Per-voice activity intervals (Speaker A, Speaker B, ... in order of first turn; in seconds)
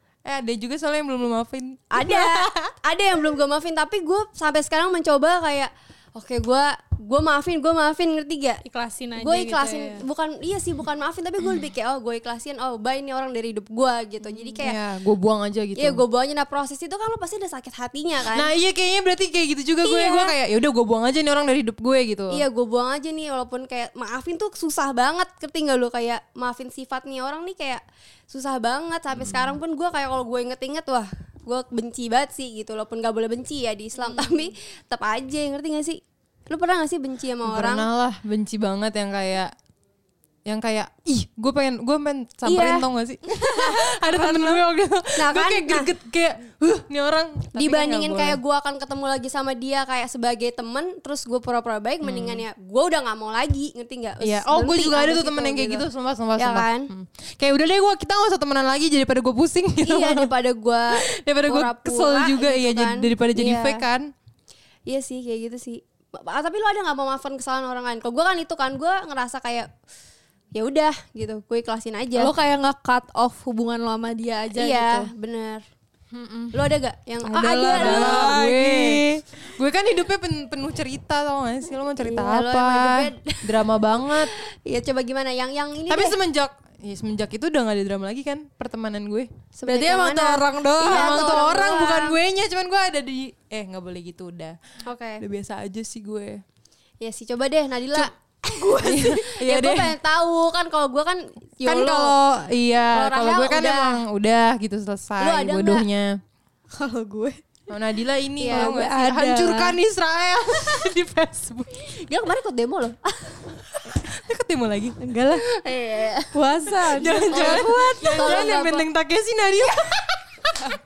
Speaker A: 0.2-2.7, 14.6-16.0, 18.3-22.4, 29.2-29.5, 37.4-39.5, 40.5-48.4, 52.0-52.4, 54.2-60.3, 61.1-64.1, 76.1-76.5, 77.7-84.3, 85.9-89.3, 90.8-94.6, 95.2-96.4, 98.8-99.9, 101.7-106.1, 107.7-111.8, 113.9-115.0, 116.8-120.5
Speaker B: 1.9-8.6, 9.2-14.7, 15.8-18.5, 19.8-20.3, 22.3-37.9, 42.4-42.9, 43.5-43.8, 45.2-45.9, 47.5-55.8, 56.4-56.9, 59.8-63.8, 64.9-69.7, 70.5-72.3, 74.5-75.6, 76.5-78.3, 82.0-86.2, 89.5-92.2, 94.8-95.2, 97.0-102.2, 102.9-104.0, 105.2-105.8, 108.4-108.7, 112.0-113.4, 115.3-116.3, 117.3-118.9
Speaker C: 8.7-10.0, 44.0-44.6, 72.2-75.1, 77.2-79.2, 89.7-91.5, 98.5-99.0, 106.7-107.4, 108.5-109.8, 115.0-115.4, 116.3-118.5